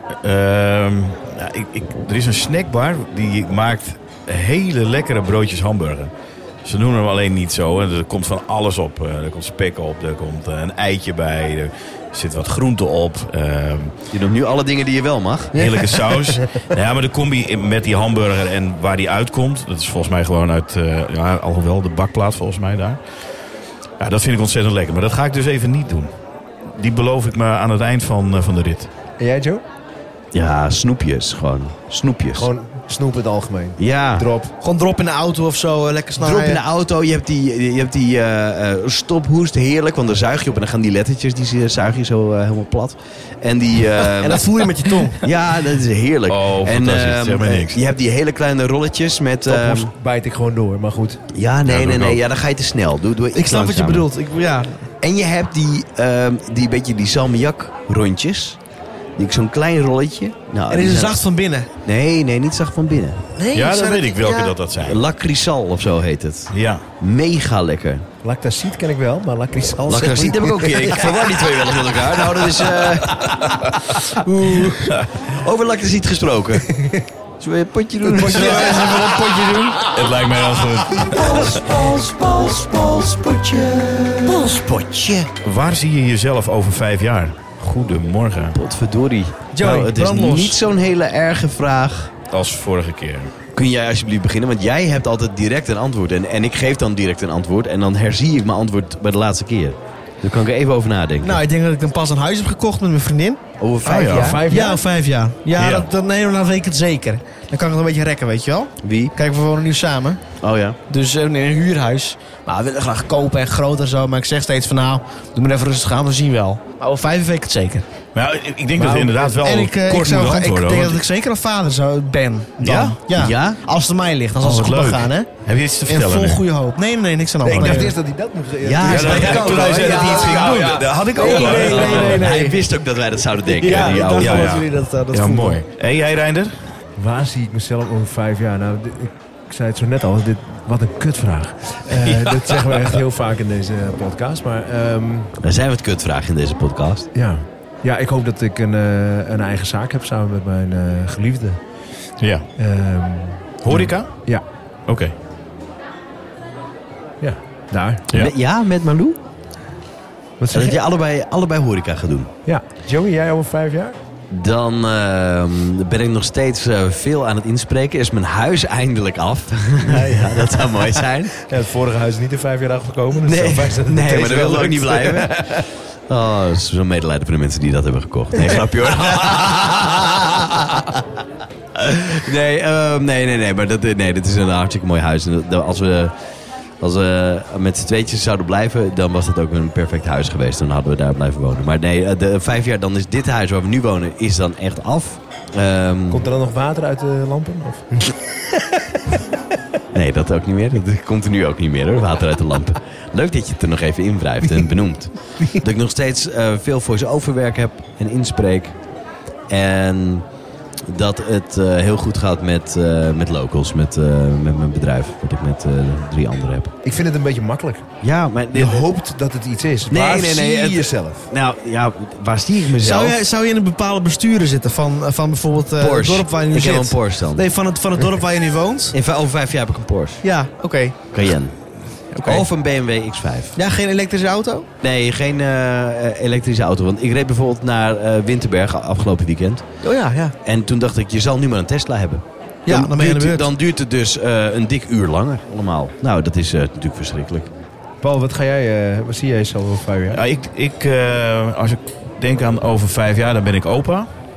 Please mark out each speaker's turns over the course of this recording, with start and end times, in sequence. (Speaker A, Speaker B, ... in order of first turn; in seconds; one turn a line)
Speaker A: 0.2-6.1
Speaker A: 6.6-13.9
Speaker B: 14.1-15.6
Speaker A: 15.5-23.0
Speaker C: 15.6-16.6
Speaker A: 24.0-26.1
Speaker A: 26.7-28.9
Speaker C: 29.2-29.6
Speaker B: 30.3-32.5
Speaker C: 32.3-34.5
Speaker B: 33.8-34.3
Speaker D: 34.6-36.6
Speaker B: 36.2-44.4
Speaker D: 44.2-45.2
Speaker B: 45.2-49.9
Speaker A: 46.3-47.8
Speaker C: 49.4-51.2
Speaker B: 51.3-54.1
Speaker A: 51.6-52.2
Speaker D: 53.3-54.9
Speaker B: 55.0-58.6
Speaker B: 59.2-61.2
Speaker D: 60.7-61.7
Speaker B: 61.8-63.2
Speaker D: 63.4-64.5
Speaker A: 63.5-65.0
Speaker B: 64.8-68.0
Speaker A: 66.5-66.8
Speaker C: 68.2-74.9
Speaker B: 69.8-73.8
Speaker B: 75.2-76.7
Speaker C: 76.7-77.0
Speaker B: 77.4-79.6
Speaker C: 78.0-80.1
Speaker A: 78.3-78.9
Speaker D: 78.4-79.4
Speaker A: 79.8-81.6
Speaker C: 81.0-82.8
Speaker B: 81.5-85.3
Speaker A: 85.4-88.5
Speaker B: 88.5-92.1
Speaker D: 89.5-90.6
Speaker A: 92.3-93.3
Speaker B: 93.5-101.4
Speaker D: 101.2-103.4
Speaker B: 103.6-104.4
Speaker A: 103.8-104.4
Speaker C: 104.1-104.8
Speaker D: 104.5-110.2
Speaker A: 105.5-105.9
Speaker B: 108.8-109.1
Speaker B: 110.4-110.8
Speaker D: 110.9-117.8
Speaker A: 118.1-121.0
Speaker C: 118.8-119.3
Speaker D: 119.4-125.3
Speaker B: 122.6-123.6
Speaker A: 122.6-122.9
Speaker A: 124.4-126.4
Speaker D: 125.8-127.9
Speaker C: 127.4-132.6
Speaker A: 127.4-127.9
Speaker B: 128.6-134.6
Speaker A: 128.8-132.2
Speaker D: 131.2-132.6
Speaker D: 133.5-135.6
Speaker A: 133.7-136.7
Speaker C: 136.9-145.3
Speaker A: 142.1-142.5
Speaker B: 145.4-147.1
Speaker C: 147.1-151.6
Speaker A: 152.2-152.4
Speaker C: 152.6-154.4
Speaker A: 153.6-154.3
Speaker A: 154.9-155.1
Speaker C: 157.2-158.0
Speaker B: 158.1-159.2
Speaker C: 160.4-160.8
Speaker B: 160.5-162.3
Speaker C: 162.4-164.0
Speaker B: 164.3-171.4
Speaker C: 170.0-170.8
Speaker C: 171.4-175.7
Speaker B: 173.2-175.4
Speaker B: 176.1-181.0
Speaker B: 181.8-186.1
Speaker B: 186.8-196.2
Speaker C: 196.1-199.2
Speaker B: 199.9-208.8
Speaker B: 209.5-210.2
Speaker B: 210.8-216.7
Speaker C: 216.8-217.8
Speaker B: 218.0-218.8
Speaker C: 218.5-221.3
Speaker B: 219.9-223.1
Speaker D: 222.8-228.9
Speaker B: 225.8-227.4
Speaker B: 228.9-230.2
Speaker D: 230.2-231.0
Speaker B: 231.1-231.6
Speaker D: 232.1-232.5
Speaker B: 232.2-233.6
Speaker D: 233.6-234.7
Speaker B: 234.8-239.6
Speaker D: 239.8-240.3
Speaker B: 240.4-247.5
Speaker D: 242.7-243.5
Speaker C: 248.0-250.2
Speaker A: 250.1-254.1